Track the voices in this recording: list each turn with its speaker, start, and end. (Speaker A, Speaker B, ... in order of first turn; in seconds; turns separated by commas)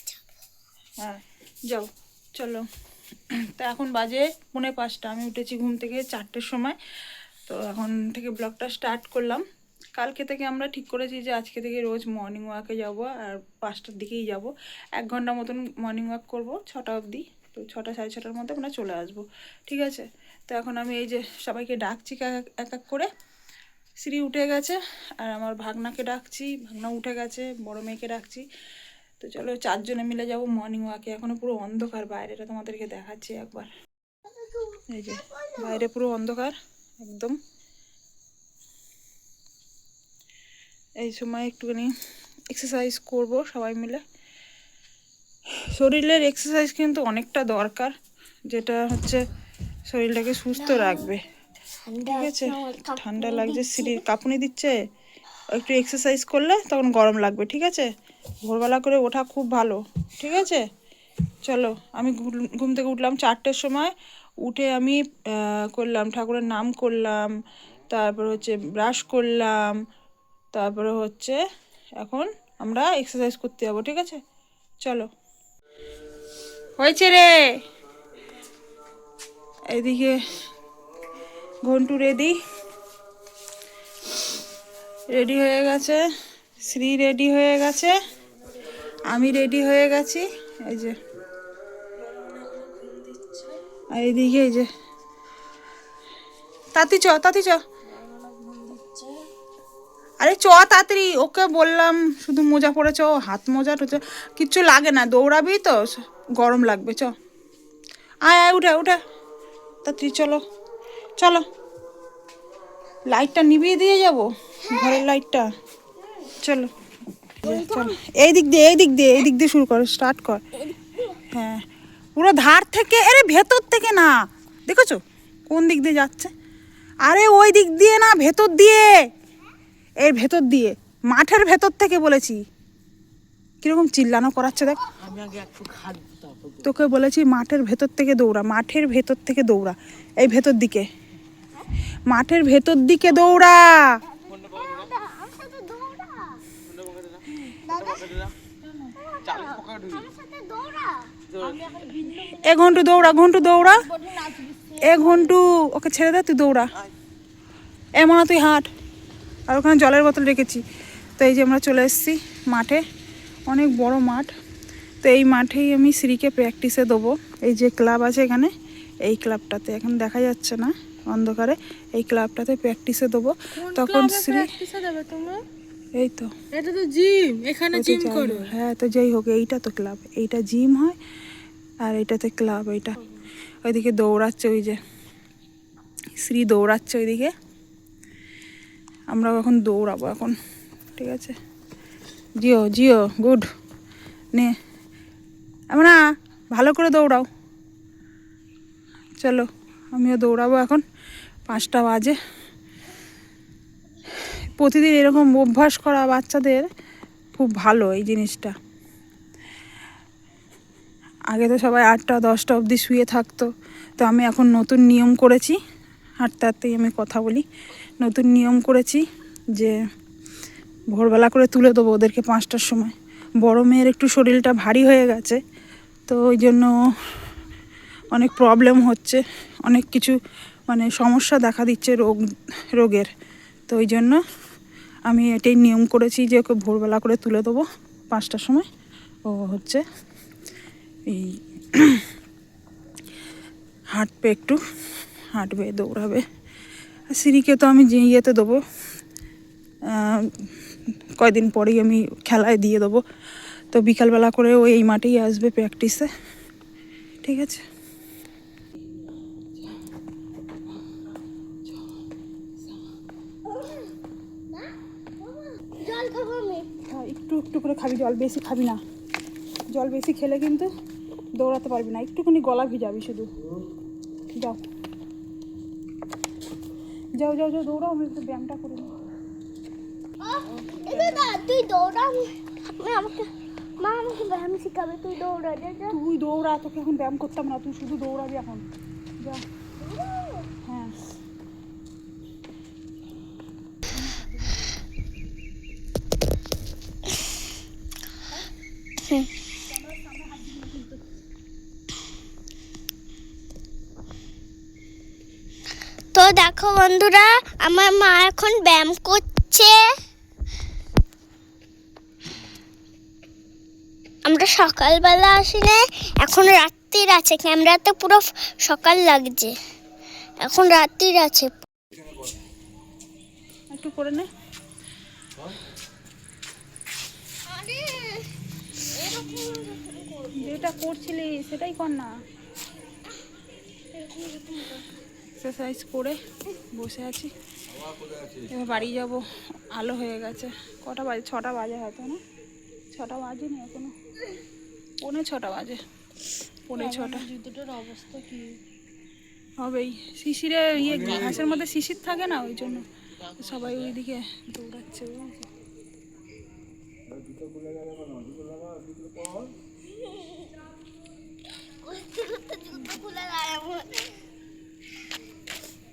Speaker A: 1.0-2.6, Speaker A: 3.5-6.8, Speaker A: 7.5-9.4, Speaker A: 9.9-23.1, Speaker A: 24.0-28.4, Speaker A: 29.2-33.7, Speaker B: 34.4-35.8, Speaker A: 34.9-37.4, Speaker A: 41.0-41.9, Speaker A: 42.5-44.0, Speaker A: 45.7-47.9, Speaker A: 48.5-49.2, Speaker A: 49.9-51.2, Speaker B: 50.6-51.1, Speaker B: 51.9-54.0, Speaker A: 52.1-54.7, Speaker A: 55.5-57.9, Speaker A: 58.4-60.6, Speaker A: 61.4-67.3, Speaker A: 67.9-69.8, Speaker A: 70.5-71.4, Speaker A: 72.0-74.2, Speaker A: 76.8-77.3, Speaker A: 79.7-80.2, Speaker A: 81.6-82.4, Speaker A: 85.1-86.0, Speaker A: 86.6-87.9, Speaker A: 89.1-91.0, Speaker C: 92.0-93.6, Speaker A: 93.9-94.7, Speaker A: 96.7-97.6, Speaker C: 97.9-99.3, Speaker A: 100.2-107.1, Speaker A: 108.2-109.0, Speaker A: 109.8-110.4, Speaker A: 111.2-111.4, Speaker A: 113.1-115.5, Speaker B: 114.7-115.0, Speaker A: 116.4-116.7, Speaker B: 117.4-118.0, Speaker A: 117.4-120.4, Speaker B: 120.6-121.2, Speaker A: 121.3-121.6, Speaker A: 122.2-124.1, Speaker A: 124.7-126.3, Speaker A: 127.0-128.9, Speaker A: 130.0-132.4, Speaker A: 133.6-134.9, Speaker C: 135.1-136.3, Speaker A: 136.6-140.8, Speaker A: 142.1-143.8, Speaker B: 144.1-146.4, Speaker B: 147.6-148.2, Speaker B: 148.9-151.1, Speaker C: 151.3-155.4, Speaker A: 152.4-153.9, Speaker A: 154.8-156.7, Speaker A: 158.0-158.7, Speaker A: 159.5-160.6, Speaker A: 161.2-162.8, Speaker A: 163.5-164.3, Speaker A: 165.0-168.5, Speaker A: 169.0-174.5, Speaker C: 173.6-175.4, Speaker A: 175.9-176.3, Speaker C: 176.5-178.5, Speaker A: 177.7-181.0, Speaker A: 181.8-183.0, Speaker A: 183.6-184.8, Speaker A: 186.2-187.3, Speaker A: 189.1-190.3, Speaker A: 191.0-191.3, Speaker A: 192.4-193.4, Speaker A: 196.5-197.3, Speaker A: 199.2-200.8, Speaker A: 201.5-202.2, Speaker A: 204.6-206.7, Speaker A: 207.3-208.5, Speaker A: 211.3-215.6, Speaker A: 216.2-217.4, Speaker A: 218.0-219.0, Speaker A: 220.9-225.4, Speaker A: 226.1-226.7, Speaker A: 228.1-230.2, Speaker A: 230.7-232.2, Speaker A: 232.7-233.1, Speaker A: 233.7-234.2, Speaker A: 235.1-238.7, Speaker A: 239.2-239.8, Speaker A: 241.1-242.0, Speaker A: 243.9-244.6, Speaker A: 245.3-246.2, Speaker A: 247.1-248.6, Speaker A: 249.9-250.3, Speaker A: 251.2-253.0, Speaker A: 253.7-256.1, Speaker A: 257.2-257.6, Speaker B: 265.2-266.7, Speaker A: 266.9-268.8, Speaker A: 269.7-270.7, Speaker A: 271.4-273.3, Speaker A: 274.4-274.6, Speaker A: 277.2-278.9, Speaker B: 280.2-285.9, Speaker A: 280.8-281.3, Speaker A: 285.9-288.6, Speaker B: 289.8-290.5, Speaker A: 290.6-290.9, Speaker A: 299.7-301.0, Speaker B: 306.1-309.9, Speaker B: 314.2-319.6, Speaker B: 320.4-321.5, Speaker A: 323.7-324.3, Speaker B: 327.4-328.3, Speaker B: 328.8-330.7, Speaker A: 330.4-332.1, Speaker B: 333.9-334.9, Speaker A: 335.4-336.2, Speaker A: 336.7-337.3, Speaker A: 338.5-342.2, Speaker A: 342.9-343.9, Speaker A: 345.0-345.8, Speaker A: 346.7-347.2, Speaker C: 346.8-348.6, Speaker A: 349.6-355.4, Speaker B: 361.8-364.1